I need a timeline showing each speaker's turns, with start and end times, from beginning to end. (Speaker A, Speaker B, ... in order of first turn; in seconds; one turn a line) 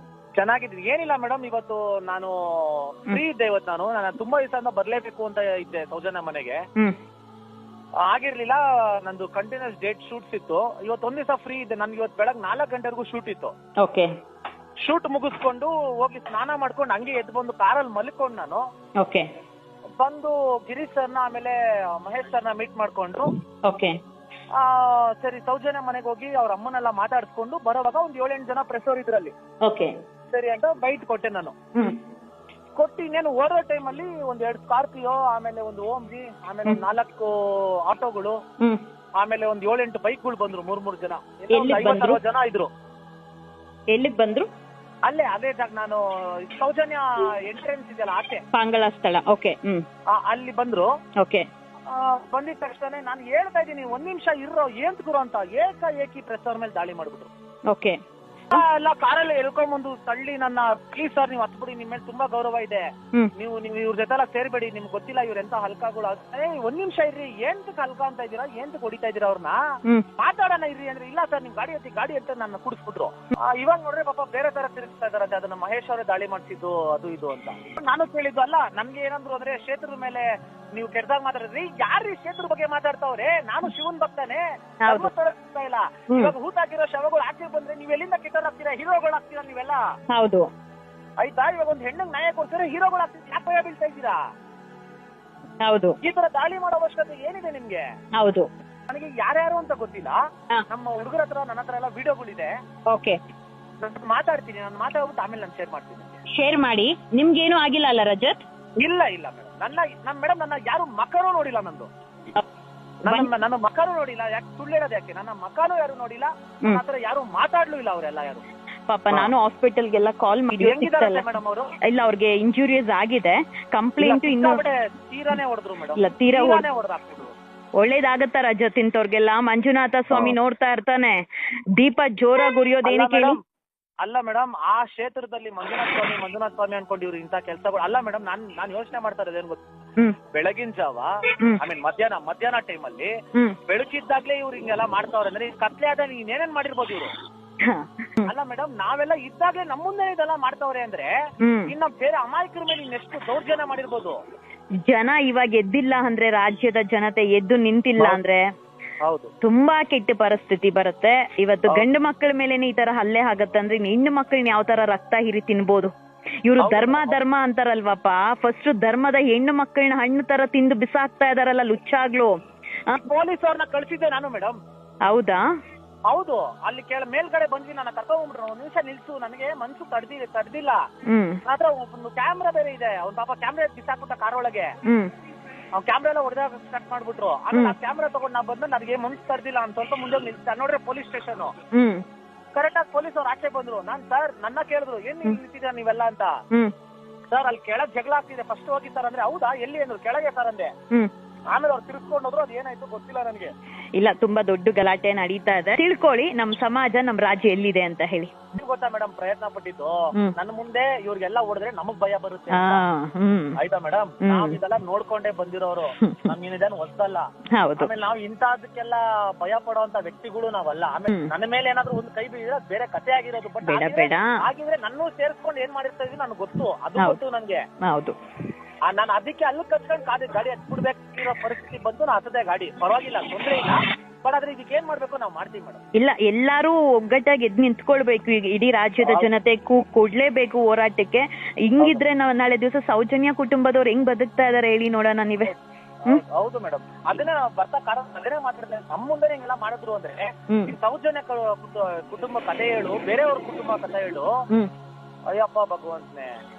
Speaker A: 0.4-6.6
Speaker A: 8.1-13.5
Speaker B: 13.8-14.1
Speaker A: 14.8-18.6
Speaker B: 19.0-19.2
Speaker A: 20.0-23.3
Speaker B: 23.7-23.9
Speaker A: 24.6-29.3
Speaker B: 29.6-29.9
Speaker A: 30.3-31.5
Speaker A: 32.8-37.3
Speaker A: 37.9-38.4
Speaker A: 39.2-42.7
Speaker B: 41.5-42.2
Speaker B: 43.9-44.5
Speaker A: 45.0-48.4
Speaker B: 48.5-49.9
Speaker A: 50.2-50.9
Speaker B: 51.2-51.5
Speaker A: 51.9-57.3
Speaker B: 57.7-58.0
Speaker A: 58.5-62.8
Speaker A: 63.4-69.6
Speaker A: 70.2-89.8
Speaker B: 84.8-85.1
Speaker B: 90.1-90.5
Speaker A: 91.2-94.2
Speaker B: 95.6-96.0
Speaker A: 96.0-97.8
Speaker B: 98.2-98.5
Speaker A: 98.9-100.2
Speaker A: 100.7-102.5
Speaker B: 102.9-103.2
Speaker A: 103.8-106.2
Speaker B: 106.3-108.4
Speaker A: 108.8-111.9
Speaker A: 113.0-118.4
Speaker B: 118.9-121.2
Speaker A: 120.6-121.7
Speaker B: 121.8-124.6
Speaker A: 124.0-127.3
Speaker B: 126.0-126.7
Speaker B: 127.8-131.2
Speaker B: 131.8-133.3
Speaker A: 132.8-133.3
Speaker A: 134.0-139.6
Speaker A: 140.3-143.1
Speaker A: 143.7-147.1
Speaker B: 147.6-148.3
Speaker A: 148.2-151.1
Speaker B: 151.4-151.7
Speaker A: 151.7-154.2
Speaker B: 154.8-158.4
Speaker A: 159.0-159.3
Speaker B: 159.4-165.9
Speaker B: 166.4-172.3
Speaker A: 166.6-167.2
Speaker A: 173.0-174.6
Speaker B: 175.1-175.4
Speaker A: 176.1-180.8
Speaker B: 181.1-181.4
Speaker A: 181.4-184.7
Speaker B: 184.8-185.1
Speaker A: 185.8-191.5
Speaker B: 191.7-192.0
Speaker A: 192.5-196.3
Speaker A: 197.3-200.7
Speaker A: 201.5-203.5
Speaker B: 204.0-208.3
Speaker A: 208.5-212.8
Speaker B: 212.5-213.6
Speaker A: 213.6-217.2
Speaker B: 214.2-214.6
Speaker B: 216.0-216.3
Speaker B: 217.5-217.9
Speaker A: 217.8-227.6
Speaker B: 223.6-224.3
Speaker B: 227.8-228.1
Speaker A: 228.9-235.8
Speaker B: 236.0-245.5
Speaker A: 239.0-239.3
Speaker A: 246.0-254.3
Speaker A: 255.3-256.3